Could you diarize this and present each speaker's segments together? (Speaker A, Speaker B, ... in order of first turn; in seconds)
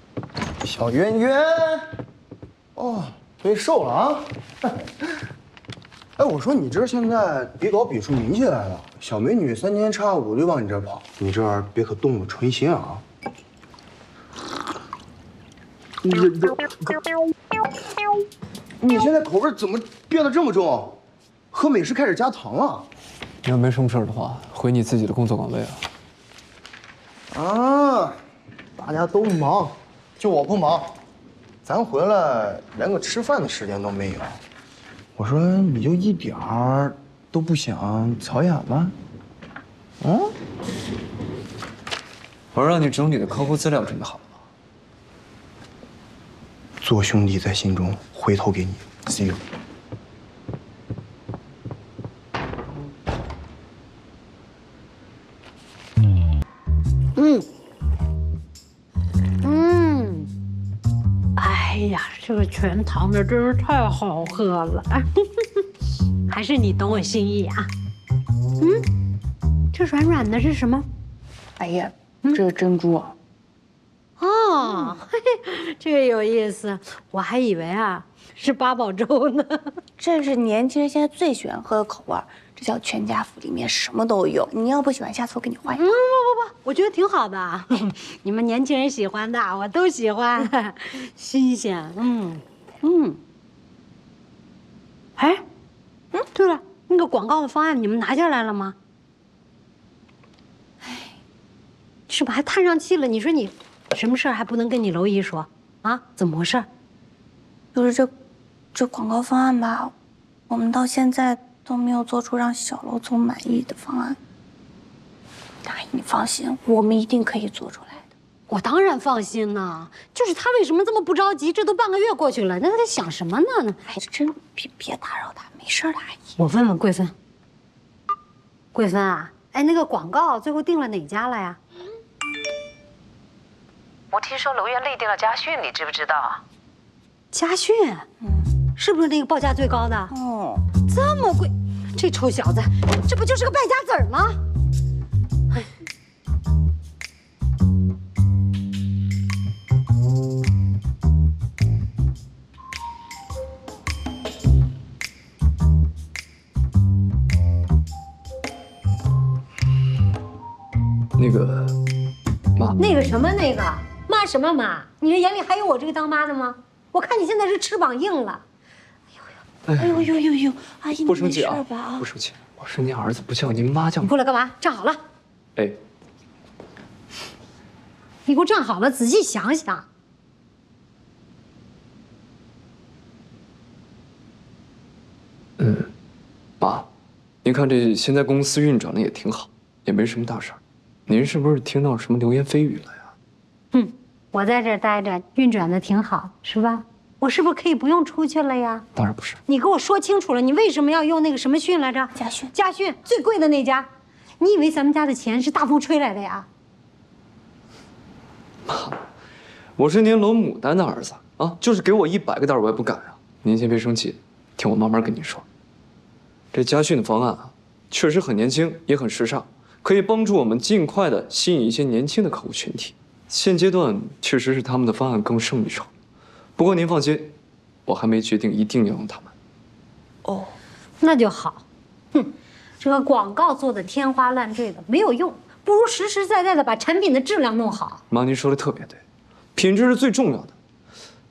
Speaker A: 0.6-1.9, 2.8-4.3, 6.2-13.0, 16.0-17.0, 18.8-21.0, 21.5-22.9, 27.3-28.2, 28.8-30.9, 31.7-34.4, 35.2-39.0, 40.0-40.3, 46.8-49.4
Speaker B: 23.4-25.8, 42.5-44.3, 161.2-161.8, 169.7-170.1, 171.0-174.1, 185.6-185.9, 186.6-186.9, 187.4-193.0, 198.9-199.4, 208.7-209.0, 209.8-215.4, 216.5-225.9, 226.6-227.3, 227.9-229.3, 238.1-239.0, 239.6-240.6
Speaker C: 57.2-57.5, 59.4-60.3, 61.4-65.2, 66.3-67.7, 69.7-70.9, 74.2-79.7, 85.8-92.4, 95.2-95.4, 96.3-98.8, 102.1-106.7, 118.5-123.9, 126.4-127.1, 128.7-131.6, 137.3-138.1, 138.8-140.1, 140.8-144.4, 162.8-168.4, 174.0-175.0, 178.3-179.8, 193.7-198.8, 199.5-203.9, 204.4-206.5, 231.0-231.6, 232.1-238.0
Speaker D: 71.6-73.1, 80.0-85.8, 92.8-93.1, 107.8-108.1, 108.7-109.9, 110.5-114.2, 115.7-118.0, 123.9-126.2, 140.1-140.6, 169.8-172.1, 202.2-202.5, 230.2-230.6
Speaker E: 134.2-136.4